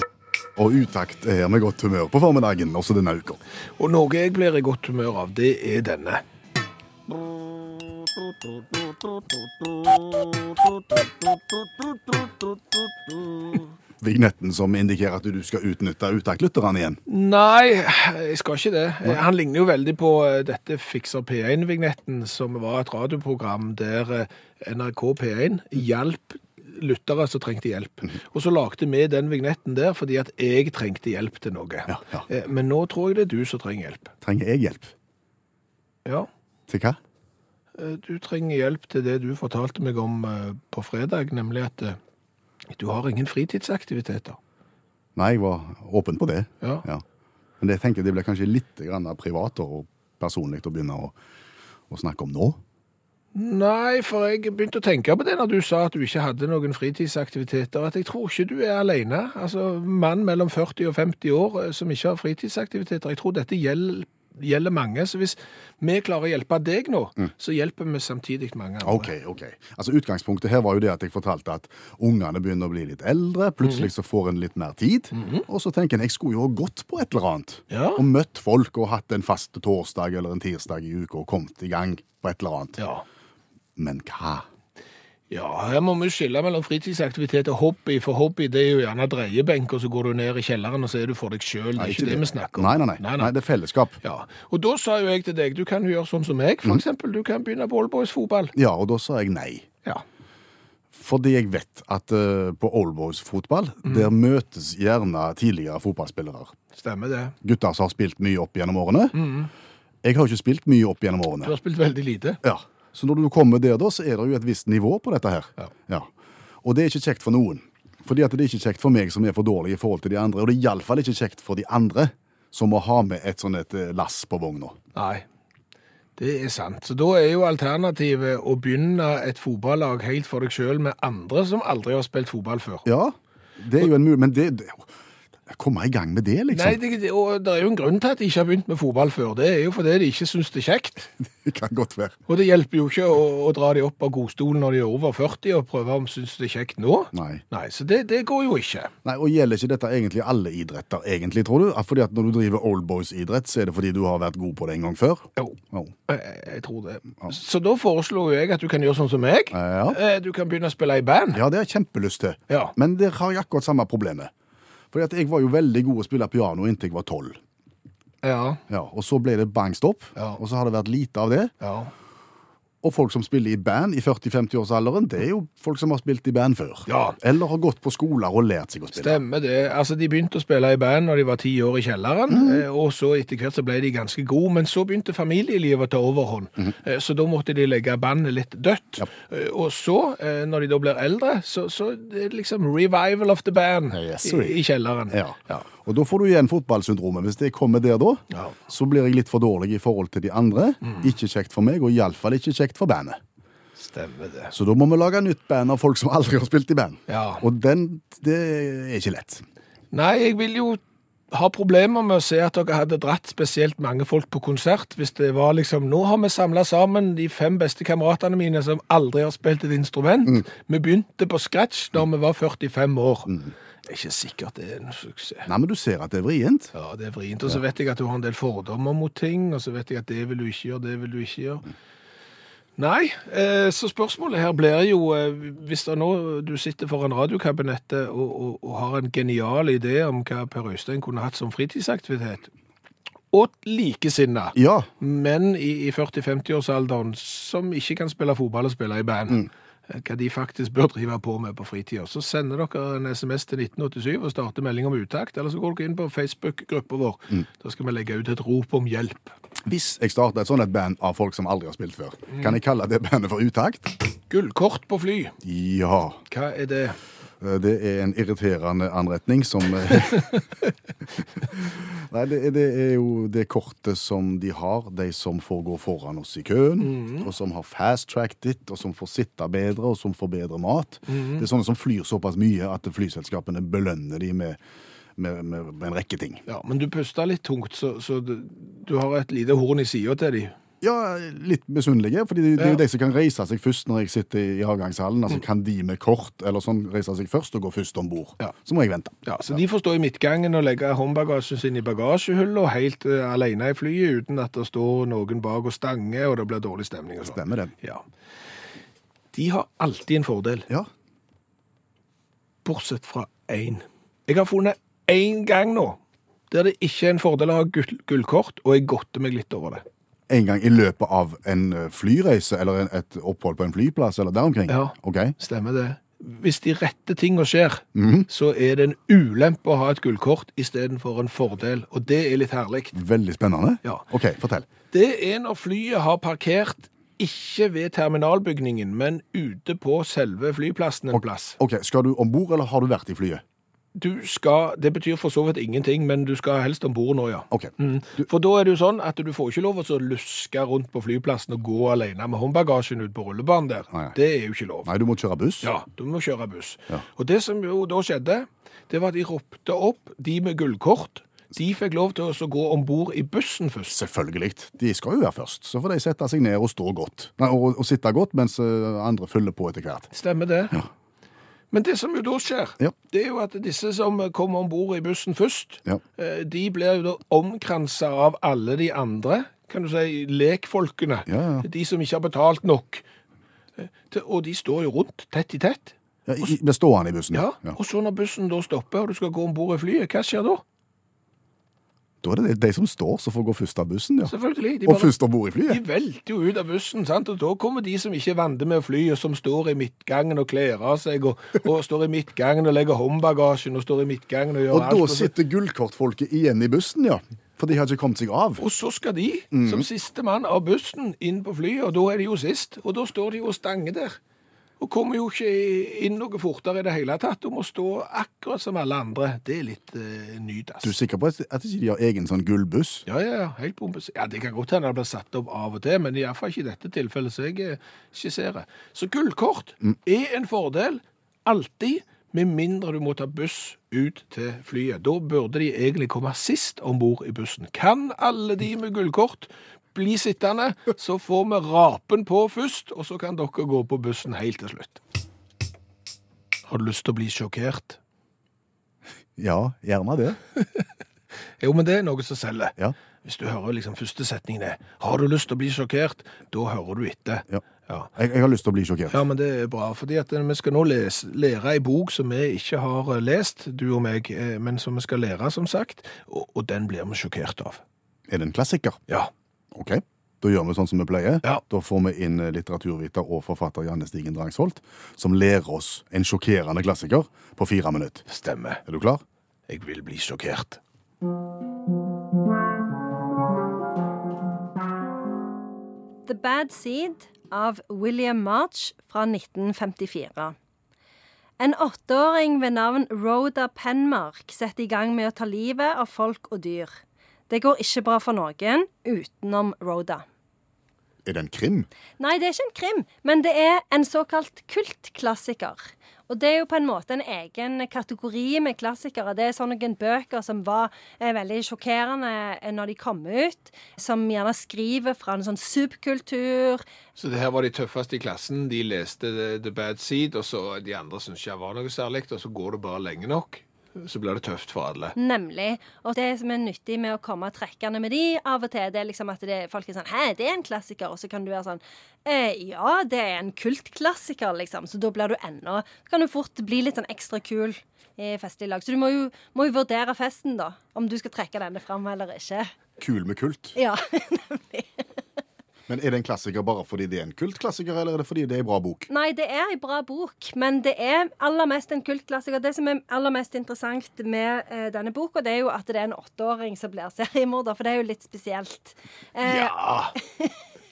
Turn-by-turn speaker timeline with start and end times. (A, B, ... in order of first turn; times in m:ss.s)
0:00.6-0:03.4 A
0:03.8-0:06.2 B
0:14.0-0:17.0 A
0:17.1-0:34.1 B
0:31.9-0:32.2 A
0:34.2-0:34.9 A
0:36.7-0:37.0 A
0:37.8-0:42.0 B
0:42.7-0:44.4 B
0:45.2-0:47.0 A
0:47.6-0:51.1 A
0:51.9-0:52.6 A
0:53.3-1:09.1 B
1:08.8-1:22.8 A
1:15.1-1:15.4 B
1:17.7-1:18.0 B
1:22.8-1:23.0 B
1:23.8-1:24.5 A
1:25.3-1:33.3 B
1:31.8-1:34.0 A
1:34.0-1:38.5 B
1:38.5-1:39.7 A
1:40.9-1:46.5 A
1:43.8-1:44.1 B
1:46.7-1:47.3 B
1:47.4-1:49.2 A
1:49.1-1:49.5 B
1:50.0-1:51.5 A
1:51.4-1:52.4 B
1:52.4-1:56.1 A
1:56.6-2:04.8 A
2:04.9-2:05.2 B
2:06.2-2:12.8 B
2:12.8-2:14.9 A
2:15.5-2:16.8 A
2:16.5-2:21.1 B
2:21.4-2:22.2 A
2:22.3-2:28.9 B
2:27.1-2:27.4 A
2:29.0-2:35.9 A
2:35.4-2:41.4 B
2:39.5-2:40.0 A
2:41.3-2:44.3 A
2:44.9-2:47.4 A
2:48.2-2:48.6 B
2:48.7-2:51.5 A
2:51.6-2:51.9 B
2:52.8-2:59.2 A
2:56.9-2:57.2 B
2:58.9-3:15.6 B
3:02.3-3:02.6 A
3:13.9-3:14.6 A
3:15.1-3:23.2 A
3:18.3-3:18.6 B
3:20.8-3:21.1 B
3:23.8-3:24.5 B
3:24.5-3:29.4 A
3:27.1-3:27.4 B
3:29.9-3:45.5 B
3:45.4-3:46.7 A
3:46.7-3:51.7 B
3:52.8-4:02.5 B
4:03.3-4:19.3 B
4:04.6-4:04.9 A
4:19.6-4:24.0 A
4:24.3-4:25.3 B
4:25.4-4:26.2 A
4:26.3-4:27.0 B
4:27.4-4:30.4 A
4:31.5-4:44.6 A
4:36.8-4:37.3 B
4:41.1-4:41.4 B
4:45.2-4:46.4 A
4:46.5-4:50.6 B
4:50.8-4:59.6 A
4:59.2-5:08.0 B
5:07.3-5:07.7 A
5:09.3-5:10.7 B
5:12.6-5:16.0 B
5:16.5-5:19.8 B
5:20.3-5:25.4 A
5:24.7-5:33.0 B
5:27.9-5:28.3 A
5:32.9-5:34.7 A
5:34.9-5:41.6 B
5:41.1-5:43.4 A
5:43.9-5:54.9 B
5:47.5-5:48.2 A
5:54.8-5:55.7 A
5:55.6-6:04.0 B
6:03.9-6:10.1 A
6:10.1-6:10.8 B
6:11.7-6:23.0 B
6:21.3-6:21.6 A
6:23.8-6:26.5 B
6:26.3-6:27.8 A
6:27.3-6:30.6 B
6:32.2-6:34.3 A
6:34.2-6:35.1 B
6:34.8-6:35.8 A
6:35.6-6:45.3 B
6:44.7-6:48.6 A
6:48.6-6:54.2 B
6:49.5-6:49.9 A
6:54.8-7:00.9 B
7:00.8-7:03.0 A
7:03.0-7:25.0 B
7:26.7-7:28.0 B
7:29.4-7:30.4 A
7:31.6-7:38.1 B
7:38.1-7:39.2 A
7:39.1-7:47.8 B
7:48.3-7:49.0 A
7:49.7-7:58.2 A
7:58.3-7:58.8 B
7:58.8-7:59.2 A
7:59.7-8:00.8 B
8:06.2-8:10.5 C
8:11.6-8:16.9 C
8:17.5-8:20.2 C
8:21.2-8:21.9 A
8:22.2-8:36.8 C
8:37.2-8:45.1 B
8:45.1-9:02.7 C
9:03.0-9:03.8 A
9:03.8-9:05.0 C
9:05.9-9:09.1 A
9:09.1-9:20.6 C
9:19.4-9:20.2 B